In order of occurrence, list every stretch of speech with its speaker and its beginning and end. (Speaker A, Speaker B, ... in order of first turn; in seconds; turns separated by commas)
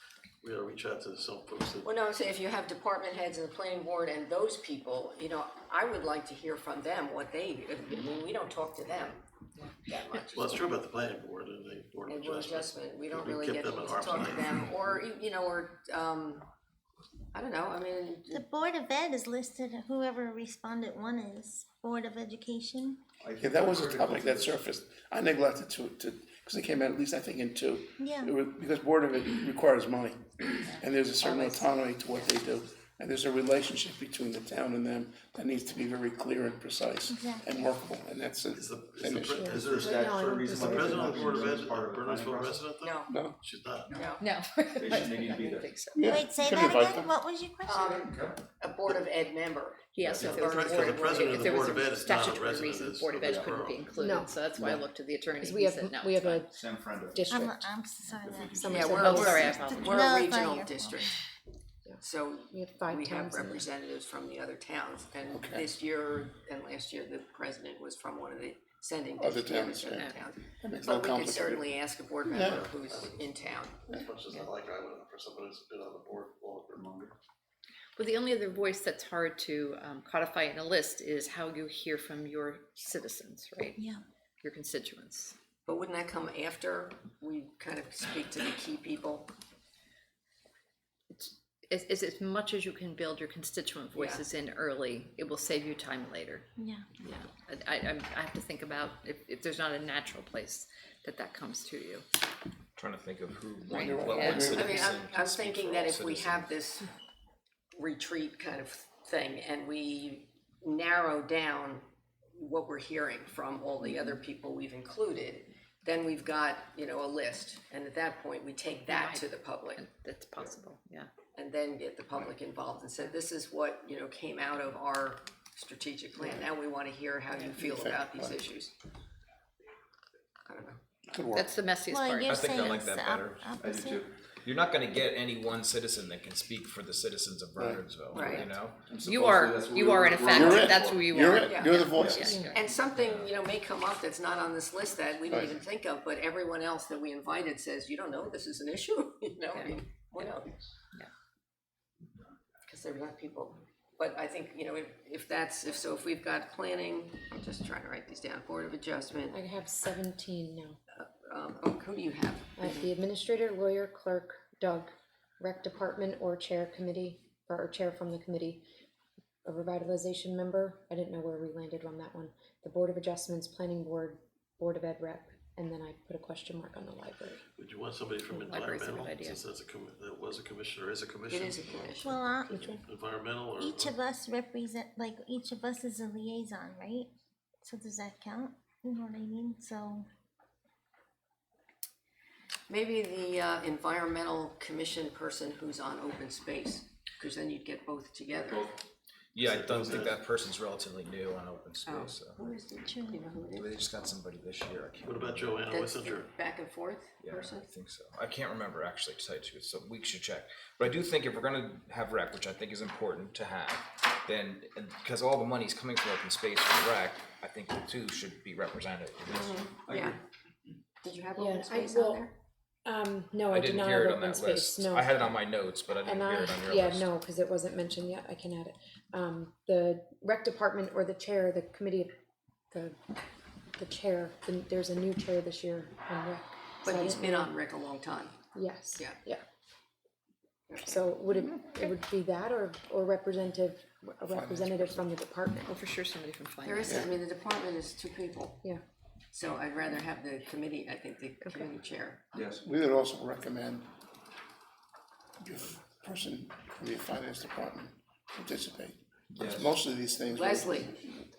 Speaker A: 0.4-1.9, Speaker B: 1.8-9.2, Speaker B: 9.9-10.7, Speaker A: 10.3-15.0, Speaker B: 12.1-16.4, Speaker B: 17.3-18.4, Speaker C: 18.3-23.0, Speaker D: 23.2-24.6, Speaker E: 23.4-39.5, Speaker C: 28.0-28.3, Speaker F: 30.6-32.3, Speaker C: 37.1-37.6, Speaker A: 38.5-40.0, Speaker G: 39.3-41.4, Speaker D: 39.5-42.6, Speaker A: 40.5-44.0, Speaker B: 42.8-43.1, Speaker E: 43.1-43.4, Speaker D: 43.9-44.1, Speaker B: 43.9-44.2, Speaker F: 44.2-46.1, Speaker D: 44.8-45.6, Speaker E: 46.0-47.1, Speaker C: 46.0-48.0, Speaker B: 47.6-51.8, Speaker D: 48.0-48.4, Speaker F: 49.9-56.5, Speaker A: 50.1-53.9, Speaker G: 53.9-54.5, Speaker D: 54.5-54.8, Speaker G: 55.3-57.8, Speaker D: 56.5-57.2, Speaker C: 57.3-61.1, Speaker D: 58.2-58.9, Speaker G: 58.4-59.9, Speaker B: 58.7-61.2, Speaker F: 59.0-59.9, Speaker G: 61.9-63.7, Speaker B: 62.0-73.8, Speaker E: 65.3-65.7, Speaker E: 69.2-72.7, Speaker A: 72.5-77.1, Speaker F: 78.0-83.9, Speaker F: 84.4-85.3, Speaker B: 85.7-89.3, Speaker F: 91.1-96.5, Speaker B: 93.9-94.2, Speaker C: 96.6-96.9, Speaker F: 97.0-102.1, Speaker H: 102.8-106.5, Speaker F: 103.7-104.5, Speaker E: 103.7-104.9, Speaker B: 104.2-106.9, Speaker B: 107.8-111.8, Speaker B: 112.3-119.8, Speaker F: 118.9-121.1, Speaker B: 121.3-128.7, Speaker E: 127.6-128.4, Speaker B: 130.5-130.8, Speaker E: 131.1-131.5, Speaker F: 131.3-132.6, Speaker C: 131.9-134.1, Speaker H: 132.3-133.4, Speaker D: 133.6-134.1, Speaker H: 134.4-138.8, Speaker B: 138.1-138.5, Speaker D: 138.9-141.1, Speaker F: 139.0-142.6, Speaker E: 140.2-142.5, Speaker B: 141.4-141.9, Speaker D: 142.0-142.2, Speaker G: 142.2-142.5, Speaker B: 142.5-150.5, Speaker F: 149.5-150.3, Speaker B: 152.7-159.4, Speaker G: 159.3-160.8, Speaker B: 160.9-162.9, Speaker G: 162.6-168.7, Speaker G: 169.4-177.4, Speaker A: 177.6-181.9, Speaker F: 178.3-179.4, Speaker B: 181.3-182.3, Speaker C: 181.9-182.8, Speaker A: 182.5-183.9, Speaker C: 183.6-187.1, Speaker C: 187.6-190.1, Speaker B: 192.7-198.7, Speaker H: 199.3-202.4, Speaker A: 199.4-200.2, Speaker B: 201.8-203.8, Speaker C: 202.9-203.2, Speaker H: 203.6-205.6, Speaker A: 205.0-206.3, Speaker B: 205.7-207.7, Speaker H: 207.2-219.6, Speaker B: 219.3-220.2, Speaker B: 221.0-222.3, Speaker G: 221.4-222.3, Speaker G: 222.8-225.4, Speaker H: 223.5-227.1, Speaker G: 226.0-232.1, Speaker G: 232.7-233.0, Speaker G: 233.8-237.5, Speaker B: 236.8-238.3, Speaker G: 238.5-239.4, Speaker B: 240.7-241.0, Speaker G: 240.8-245.7, Speaker E: 244.3-244.9, Speaker F: 245.7-247.1, Speaker B: 246.6-248.7, Speaker B: 249.3-252.2, Speaker G: 251.4-251.7, Speaker D: 252.3-252.6, Speaker E: 252.6-253.8, Speaker E: 255.4-261.1, Speaker D: 259.4-259.7, Speaker B: 260.3-260.9